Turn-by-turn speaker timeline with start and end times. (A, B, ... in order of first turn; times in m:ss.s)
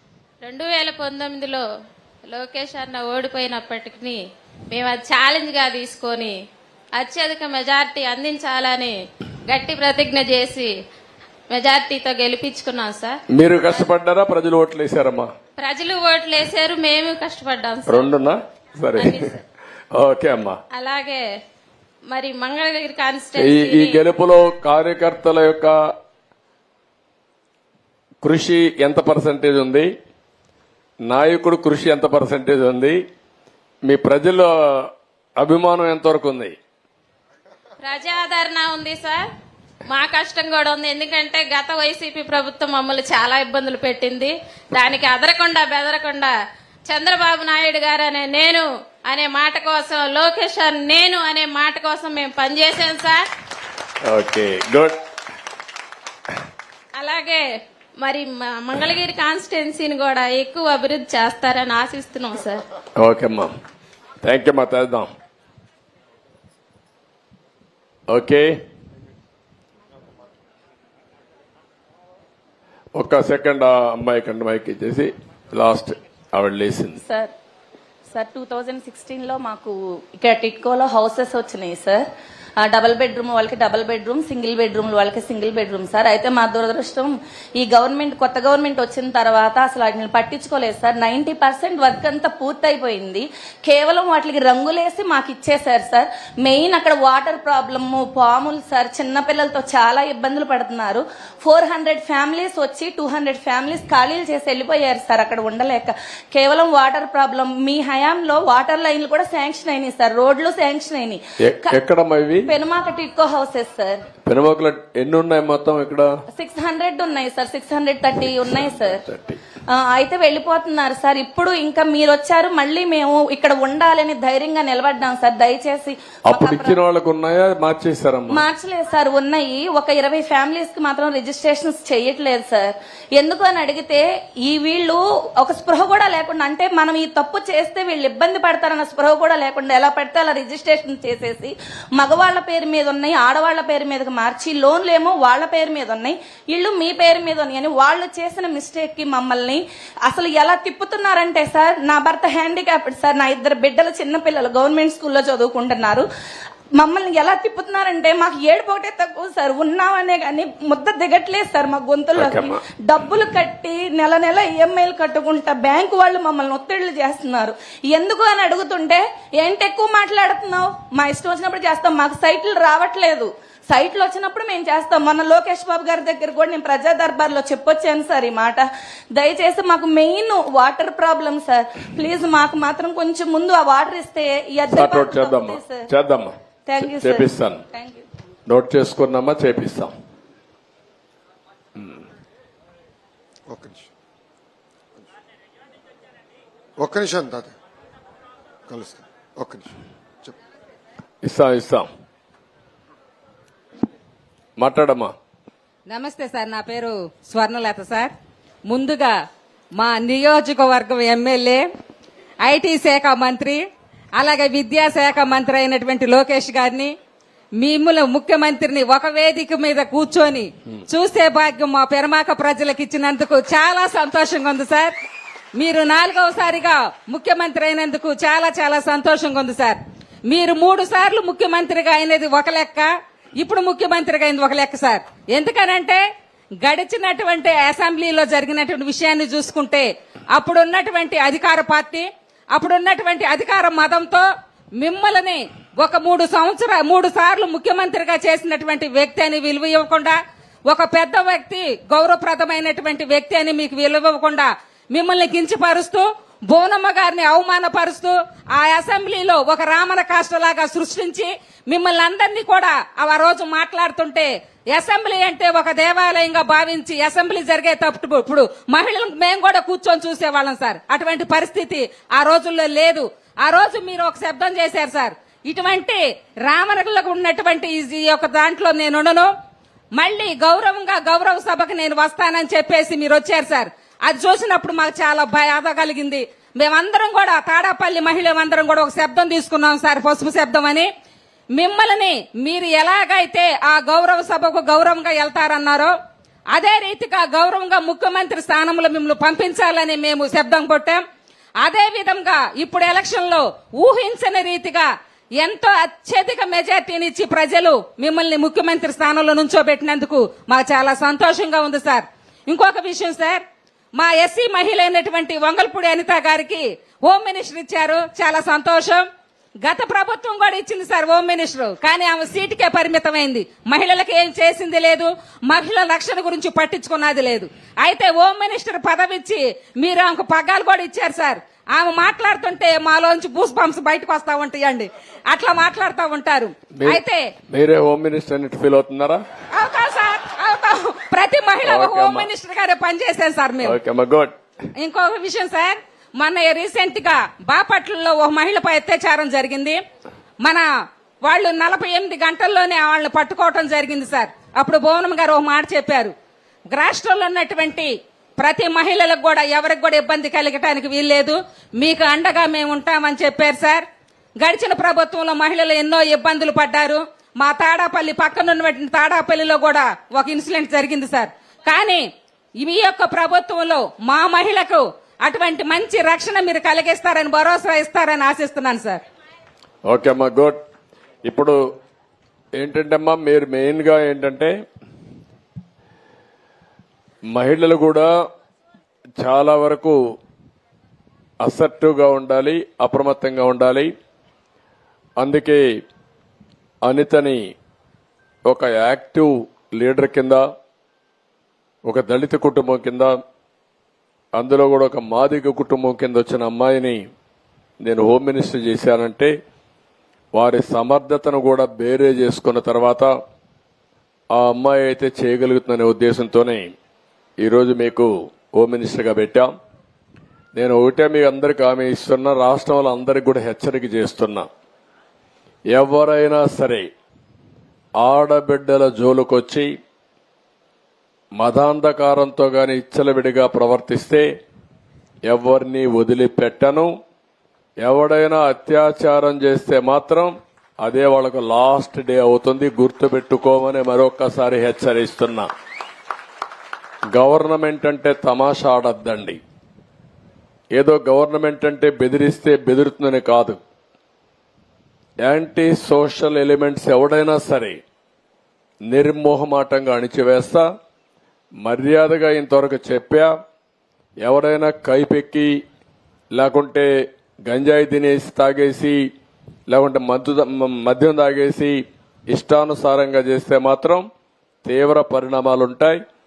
0:00.4-0:01.6 A
0:02.3-0:04.2 A
0:04.7-0:06.3 A
0:07.0-0:08.9 A
0:09.5-0:10.7 A
0:11.5-0:13.2 A
0:13.3-0:15.3 B
0:15.6-0:18.1 A
0:17.9-0:19.3 B
0:19.0-0:19.4 A
0:19.9-0:20.6 B
0:20.7-0:21.2 A
0:22.1-0:24.0 A
0:23.4-0:25.8 B
0:28.2-0:29.9 B
0:31.1-0:33.0 B
0:33.8-0:36.6 B
0:37.8-0:39.2 A
0:39.9-0:46.3 A
0:46.9-0:53.2 A
0:54.0-0:55.0 B
0:57.0-0:57.4 A
0:58.0-1:02.6 A
1:03.0-1:03.5 B
1:04.2-1:05.1 B
1:08.1-1:08.6 B
1:13.0-1:17.0 B
1:17.0-1:17.3 C
1:18.1-1:22.0 C
1:22.6-1:51.8 C
1:51.4-1:52.5 B
1:52.4-1:54.0 C
1:54.3-1:56.1 B
1:56.3-1:59.0 C
1:58.3-1:59.4 B
1:59.7-2:06.8 C
2:06.3-2:08.4 B
2:08.3-2:36.1 C
2:36.8-3:05.9 C
2:42.2-2:42.6 B
3:04.7-3:07.6 B
3:06.7-3:08.0 C
3:08.5-3:09.9 B
3:13.5-3:13.9 D
3:16.8-3:17.5 D
3:18.7-3:20.3 D
3:21.2-3:21.9 B
3:24.6-3:25.1 B
3:25.9-3:28.1 E
3:28.7-3:29.2 E
3:29.8-3:31.6 E
3:32.4-3:33.6 E
3:34.2-3:36.9 E
3:37.6-3:44.9 E
3:45.6-3:56.0 E
3:56.6-4:10.2 E
4:10.7-4:39.3 E
4:40.0-4:50.9 E
4:51.5-4:55.9 E
4:56.5-5:01.0 E
5:01.6-5:04.9 E
5:05.4-5:13.4 E
5:14.0-5:19.0 E
5:19.6-5:37.3 E
5:36.8-5:39.2 B
5:39.5-5:43.8 E
5:41.6-5:42.3 B
5:43.6-5:44.3 B
5:44.8-5:49.8 E
5:51.2-5:56.1 E
5:56.7-6:03.8 E
6:04.4-6:12.0 E
6:12.6-6:19.0 E
6:19.8-6:20.6 B
6:21.2-6:21.6 B
6:22.6-6:24.5 B
6:27.3-6:28.1 B
6:29.2-6:30.0 B
6:31.4-6:33.9 B
6:35.2-6:35.6 B
6:36.8-6:37.4 B
6:38.4-6:40.4 B
6:41.8-6:43.1 B
6:44.3-6:47.0 B
6:47.8-6:49.3 B
6:50.3-6:53.1 B
6:54.3-6:56.7 B
6:57.4-6:59.5 B
7:00.5-7:04.5 B
7:05.7-7:06.9 B
7:08.0-7:09.7 B
7:11.4-7:14.2 B
7:15.2-7:16.9 B
7:17.8-7:25.5 B
7:27.1-7:29.4 B
7:30.7-7:33.6 B
7:35.2-7:37.8 B
7:38.9-7:40.7 B
7:41.6-7:43.3 B
7:44.2-7:45.6 B
7:46.3-7:46.9 B
7:47.4-7:49.0 B
7:49.7-7:54.0 B
7:54.6-7:56.0 B